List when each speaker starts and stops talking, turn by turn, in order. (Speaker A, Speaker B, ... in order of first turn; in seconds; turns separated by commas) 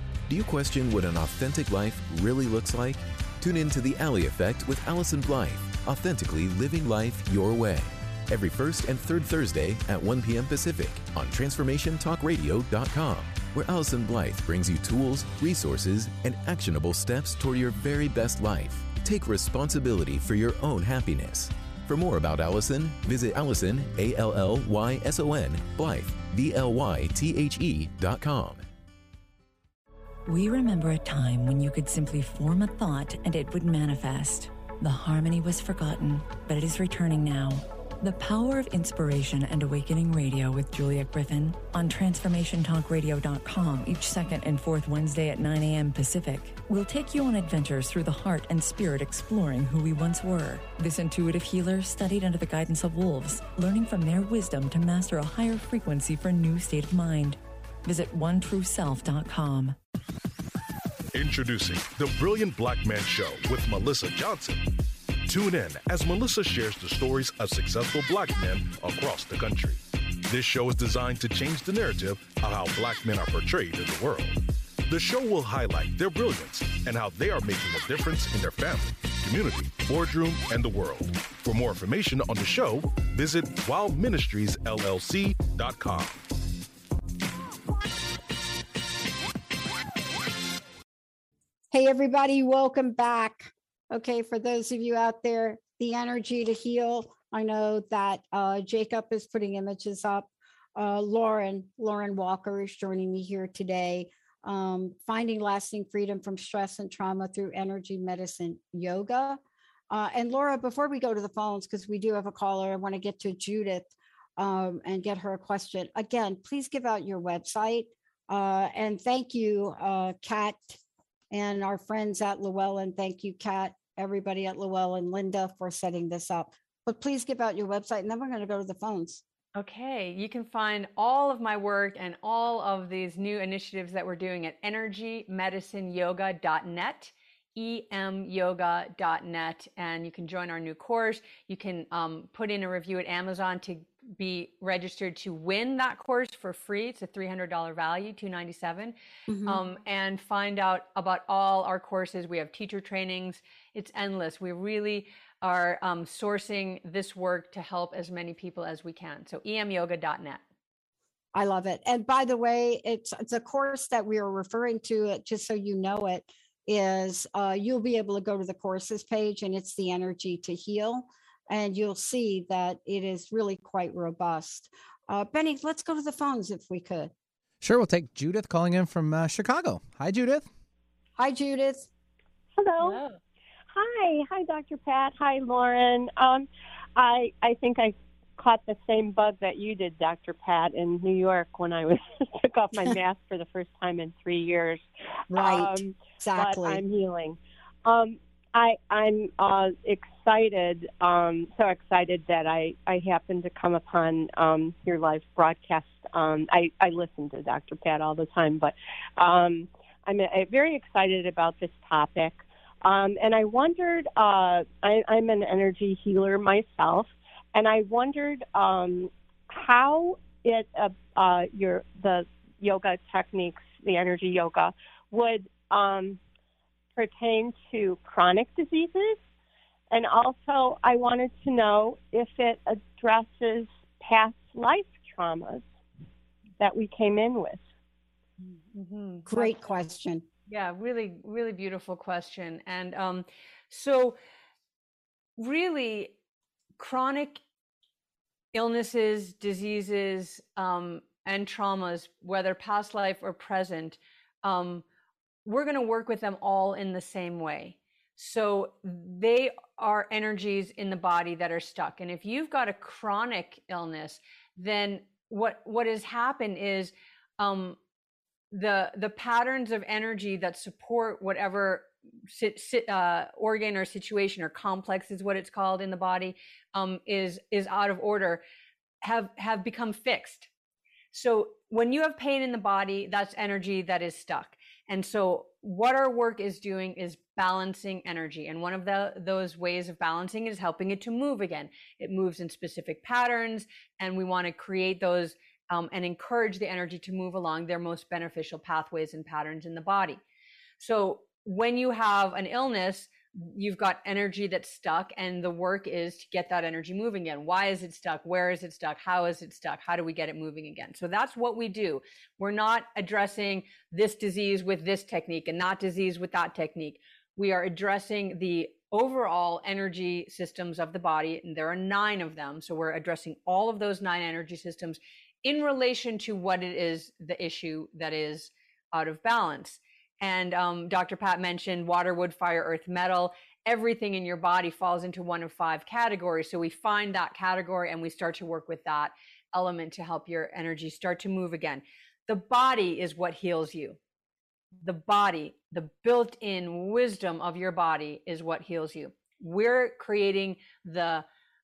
Speaker A: 0.3-28.7, Speaker B: 30.2-59.8, Speaker C: 61.1-64.7, Speaker C: 65.2-86.2, Speaker D: 91.7-120.8, Speaker D: 121.3-129.2, Speaker E: 129.6-148.9, Speaker D: 149.3-149.6, Speaker E: 149.4-160.4, Speaker D: 161.3-177.1, Speaker F: 177.6-180.5, Speaker D: 181.2-181.9, Speaker G: 182.6-183.0, Speaker E: 182.8-183.2, Speaker G: 183.7-226.2, Speaker D: 195.3-196.8, Speaker G: 226.9-229.2, Speaker G: 229.9-235.7, Speaker G: 236.6-237.6, Speaker E: 238.7-239.6, Speaker D: 239.2-240.2, Speaker E: 240.5-244.2, Speaker E: 245.4-246.1, Speaker E: 246.8-247.4, Speaker E: 248.5-254.8, Speaker E: 255.4-267.8, Speaker E: 268.5-278.4, Speaker E: 279.0-280.5, Speaker E: 281.1-300.2, Speaker E: 300.8-344.0, Speaker E: 344.8-351.2